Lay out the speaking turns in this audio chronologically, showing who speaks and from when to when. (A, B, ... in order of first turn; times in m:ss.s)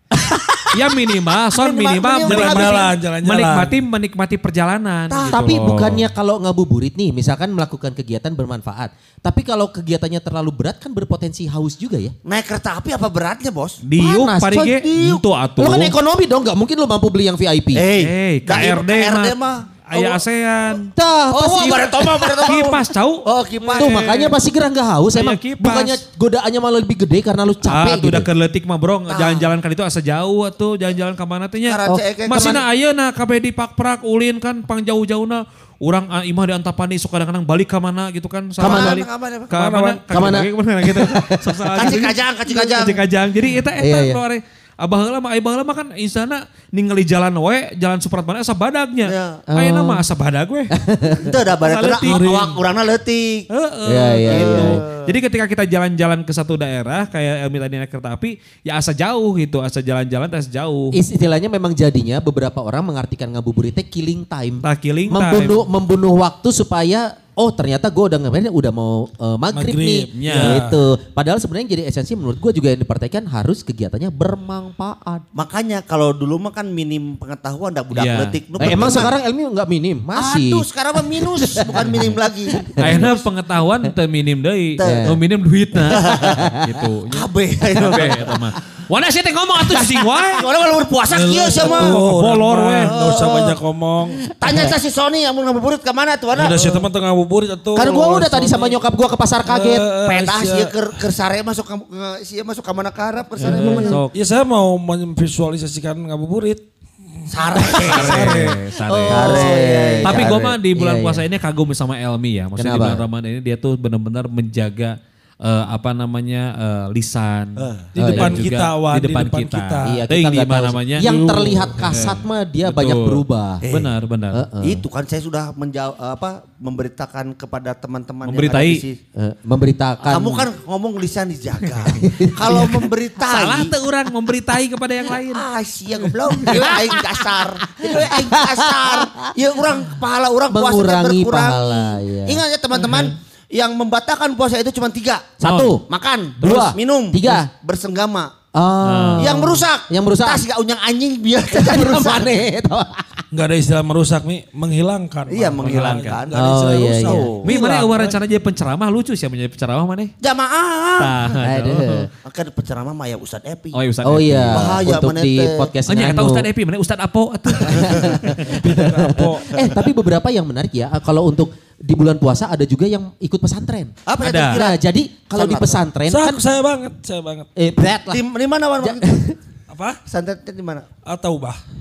0:00.2-0:00.6 A
0:00.7-0:06.0 B
0:01.5-0:02.9 C
0:02.2-0:03.7 D
0:05.1-0:05.4 C
0:05.3-0:12.1 A
0:12.2-0:13.8 C
0:13.8-0:16.0 B
0:14.0-0:17.8 A
0:17.7-0:20.2 C
0:18.0-0:19.3 B
0:19.9-0:20.9 B
0:20.8-0:22.5 A
0:21.3-0:24.0 C
0:22.4-0:24.4 B
0:23.8-0:28.3 A
0:25.1-0:26.0 B
0:27.7-0:50.7 B
0:29.1-0:29.5 C
0:31.6-0:32.6 C
0:38.6-0:39.0 A
0:38.6-0:39.5 C
0:39.5-0:40.0 D
0:40.1-0:42.0 A
0:41.8-0:43.0 C
0:43.8-0:44.2 A
0:49.0-0:49.5 C
0:49.5-0:50.0 A
0:50.7-0:51.2 A
0:51.2-0:53.5 C
0:51.6-0:52.2 B
0:52.0-0:52.6 D
0:53.5-1:00.9 B
0:53.9-0:54.8 A
0:54.2-0:55.1 C
1:00.9-1:15.2 A
1:04.6-1:05.6 B
1:09.5-1:10.8 D
1:10.2-1:10.6 B
1:15.3-1:19.1 C
1:17.9-1:19.0 B
1:18.6-1:23.1 A
1:20.1-1:23.1 C
1:22.8-1:30.4 B
1:24.8-1:25.1 C
1:24.8-1:25.1 A
1:25.9-1:26.4 C
1:26.0-1:26.7 A
1:27.1-1:28.4 C
1:29.7-1:32.0 C
1:31.1-1:34.2 D
1:31.7-1:32.9 B
1:32.8-1:33.6 C
1:34.4-1:36.6 C
1:34.4-1:34.7 A
1:36.3-1:38.8 D
1:37.7-1:39.9 A
1:39.4-1:40.7 D
1:40.0-1:43.9 C
1:43.4-1:44.1 B
1:43.4-1:46.6 D
1:43.6-1:43.9 A
1:47.2-1:48.6 D
1:47.3-1:48.4 C
1:47.8-1:49.5 B
1:48.8-1:51.2 A
1:49.1-1:50.3 C
1:50.0-2:01.1 B
1:52.6-1:53.0 A
1:57.6-1:57.9 C
1:57.9-2:00.0 D
1:58.0-1:58.4 A
1:59.8-2:03.6 A
2:01.0-2:01.9 D
2:01.8-2:04.4 B
2:03.6-2:03.9 C
2:04.3-2:04.8 A
2:04.6-2:09.0 C
2:08.2-2:08.8 B
2:09.2-2:10.4 A
2:10.0-2:13.7 C
2:11.9-2:12.7 A
2:13.2-2:15.4 B
2:15.2-2:25.4 C
2:16.3-2:17.0 A
2:16.4-2:16.7 B
2:17.7-2:19.3 A
2:20.5-2:22.4 A
2:22.8-2:23.1 B
2:25.4-2:25.8 A
2:25.4-2:25.8 B
2:25.9-2:28.3 C
2:26.4-2:27.5 A
2:28.5-2:30.4 A
2:28.8-2:29.3 B
2:29.2-2:32.3 C
2:31.5-2:33.2 A
2:33.3-2:38.0 D
2:35.3-2:37.6 C
2:35.6-2:36.2 B
2:36.3-2:37.3 A
2:37.4-2:40.1 B
2:40.2-2:41.1 C
2:41.0-2:42.0 B
2:41.4-2:42.1 A
2:42.2-2:43.8 C
2:43.7-2:44.8 B
2:44.0-2:46.4 A
2:44.5-2:45.7 C
2:45.9-2:48.3 B
2:47.6-2:53.9 A
2:48.4-2:49.5 D
2:54.0-2:54.8 C
2:54.2-2:54.6 B
2:54.5-2:56.4 A
2:55.3-2:55.8 C
2:56.1-2:57.5 D
2:57.6-2:58.2 A
2:58.1-2:59.3 C
2:58.8-2:59.4 A
2:59.7-3:00.0 D
3:00.1-3:00.9 C
3:01.0-3:01.6 D